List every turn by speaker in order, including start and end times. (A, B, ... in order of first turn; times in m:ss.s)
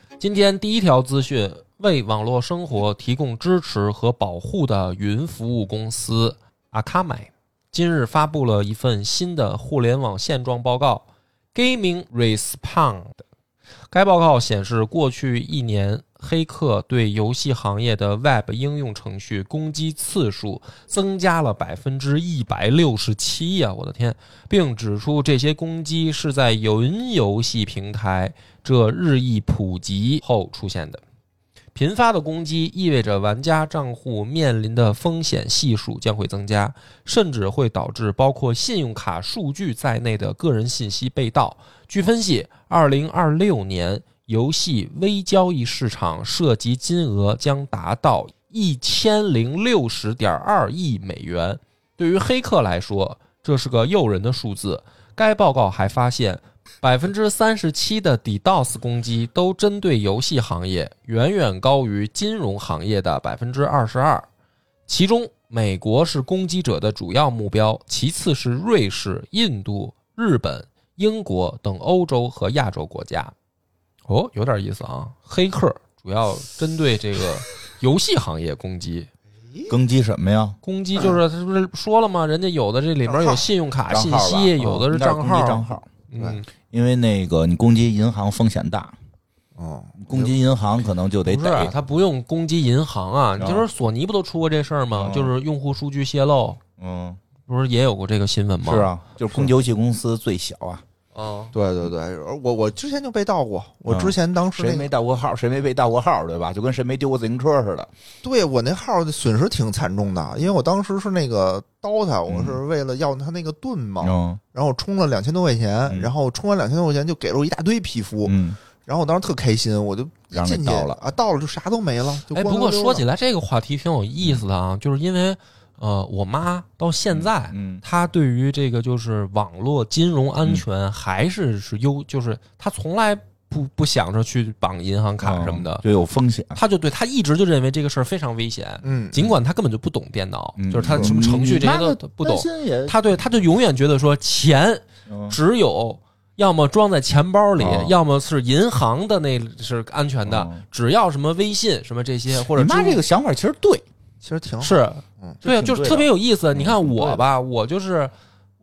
0:00.2-0:13.2 A
0:13.9-0:31.0 A
0:31.8-1:04.3 A
1:04.9-1:13.3 A
1:14.1-1:19.1 A
1:19.7-1:20.6 B
1:20.6-1:26.5 A
1:23.1-1:23.4 C
1:23.9-1:25.9 B
1:26.7-1:28.9 B
1:29.6-1:30.2 C
1:30.0-1:31.7 B
1:31.2-1:36.6 A
1:33.4-1:33.6 B
1:34.9-1:35.3 B
1:36.8-1:37.2 B
1:37.5-1:38.9 A
1:38.6-1:40.8 B
1:41.1-1:41.5 A
1:41.5-1:44.9 C
1:43.9-1:47.9 B
1:48.2-2:03.0 C
1:52.3-1:52.6 B
1:54.0-1:54.4 B
1:58.2-1:58.6 B
2:00.3-2:01.0 B
2:02.3-2:15.8 A
2:07.1-2:07.8 B
2:15.2-2:16.6 B
2:16.6-2:33.0 A
2:18.8-2:19.2 C
2:20.6-2:23.0 B
2:25.1-2:25.4 B
2:27.6-2:27.9 B
2:30.3-2:30.6 B
2:32.3-2:33.8 B
2:34.2-2:35.4 C
2:34.6-2:38.1 A
2:35.4-2:37.2 B